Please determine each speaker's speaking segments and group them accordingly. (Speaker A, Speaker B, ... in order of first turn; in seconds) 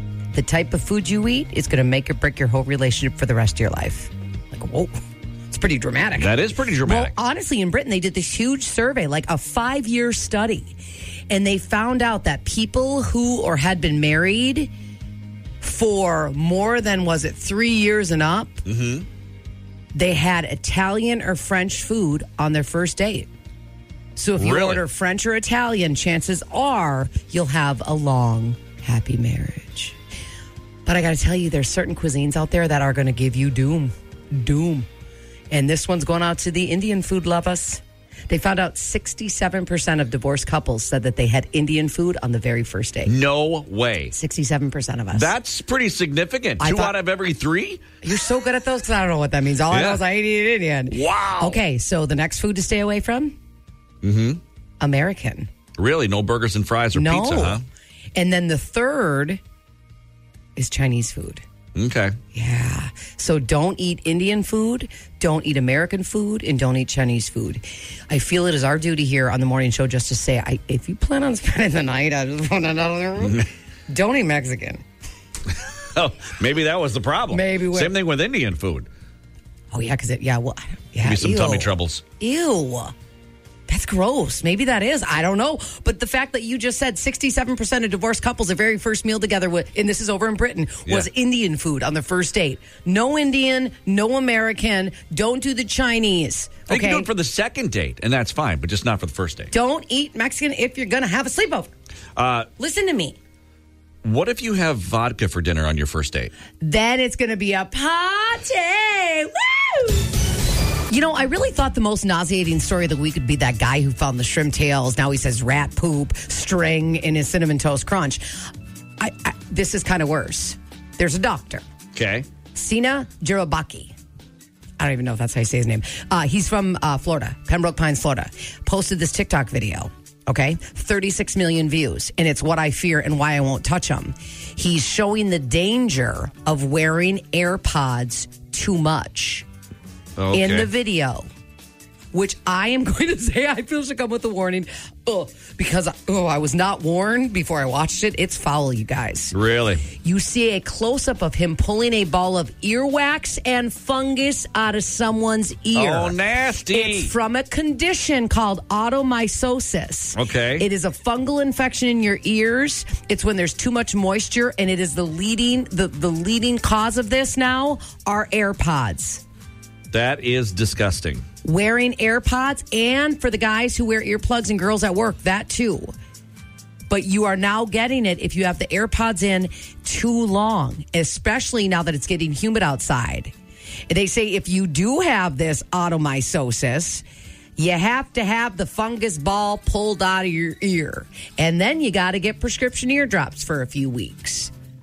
Speaker A: 0.3-5.0, 5.5-10.8, 11.3-14.7, 15.6-18.6, 19.9-23.3, 24.2-30.0, 30.9-34.9, 35.5-43.2, 44.1-45.3, 46.6-47.0, 48.0-53.4, 54.8-55.5, 56.9-57.6, 58.2-59.4, 60.6-61.4, 62.3-74.8, 77.3-77.9, 79.7-82.9, 83.7-97.1, 99.5-101.7, 102.6-103.2, 106.6-110.1, 110.9-118.2, 119.0-121.6, 122.5-123.9, 124.8-139.5, 140.3-141.3, 142.1-149.3, 149.9-156.2, 156.7-169.2, 171.4-175.9, 176.9-183.3, 183.9-187.0, 187.6-194.5
Speaker B: 6.2-7.1, 18.7-19.1, 24.4-24.8, 43.1-44.1, 45.1-47.8, 49.7-50.0, 50.9-51.6, 54.0-54.4, 55.8-57.6, 61.8-62.2, 73.2-73.5, 76.0-78.9, 81.0-82.0, 96.7-99.5, 102.2-102.5, 104.0-106.3, 121.9-122.3, 140.2-140.7, 149.3-149.9, 155.8-157.1, 160.2-160.7, 169.9-171.2